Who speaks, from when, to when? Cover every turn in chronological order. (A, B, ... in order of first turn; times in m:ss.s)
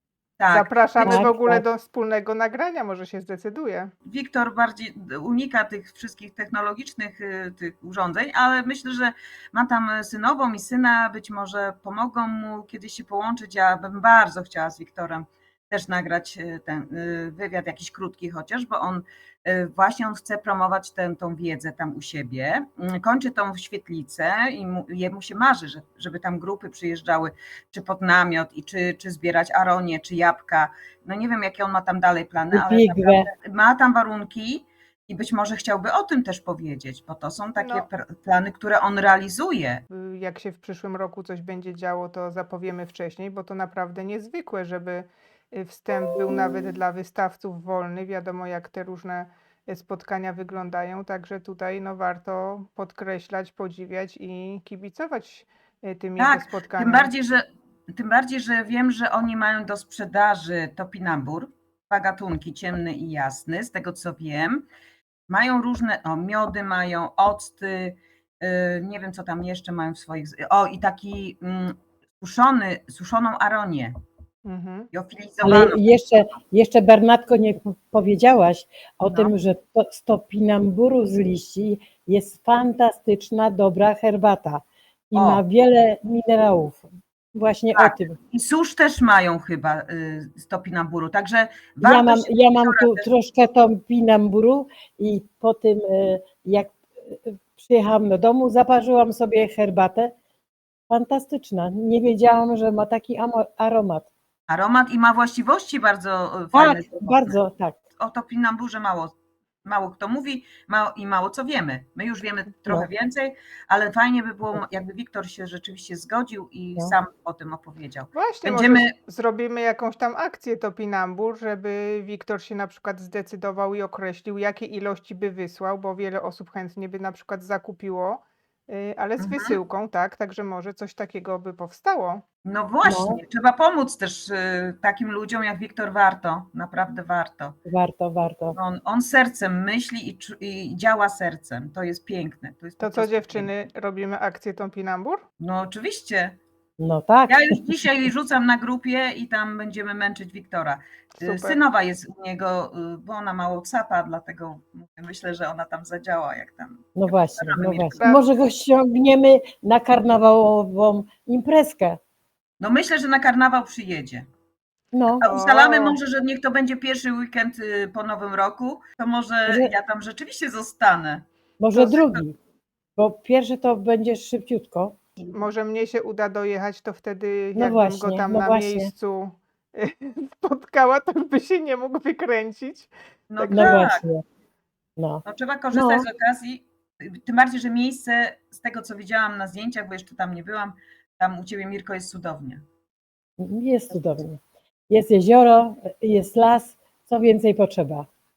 0:00.4-0:01.2 A
0:00.5-0:03.9 B
0:01.0-0:01.6 C
0:04.0-0:39.8 A
0:32.5-0:33.3 C
0:37.6-0:37.8 B
0:39.9-0:57.1 B
0:56.2-1:04.6 A
1:05.3-1:13.9 A
1:14.4-1:14.9 B
1:14.9-1:15.8 A
1:15.4-1:28.2 C
1:25.1-1:25.4 A
1:27.7-1:33.1 A
1:31.8-1:40.1 C
1:40.9-1:44.1 C
1:44.5-1:47.4 A
1:46.5-1:47.8 C
1:48.0-1:49.1 A
1:49.6-1:58.9 A
1:58.1-2:12.2 B
2:09.2-2:09.6 A
2:12.4-2:17.6 A
2:12.8-2:13.2 C
2:17.6-2:18.6 C
2:18.5-2:23.5 A
2:22.8-2:25.2 B
2:25.4-2:26.4 A
2:26.8-2:27.8 C
2:27.3-2:38.0 A
2:31.2-2:31.6 B
2:36.9-2:42.0 C
2:42.6-2:44.2 A
2:44.9-2:45.2 C
2:45.2-2:52.2 A
2:45.2-2:46.0 B
2:49.5-2:49.7 C
2:51.6-2:52.4 C
2:53.0-2:55.0 C
2:55.3-3:02.9 B
2:57.5-2:58.9 C
3:03.3-3:04.0 A
3:03.4-3:04.2 C
3:03.5-3:03.7 B
3:05.0-3:06.1 C
3:05.2-3:12.6 A
3:13.4-3:18.1 C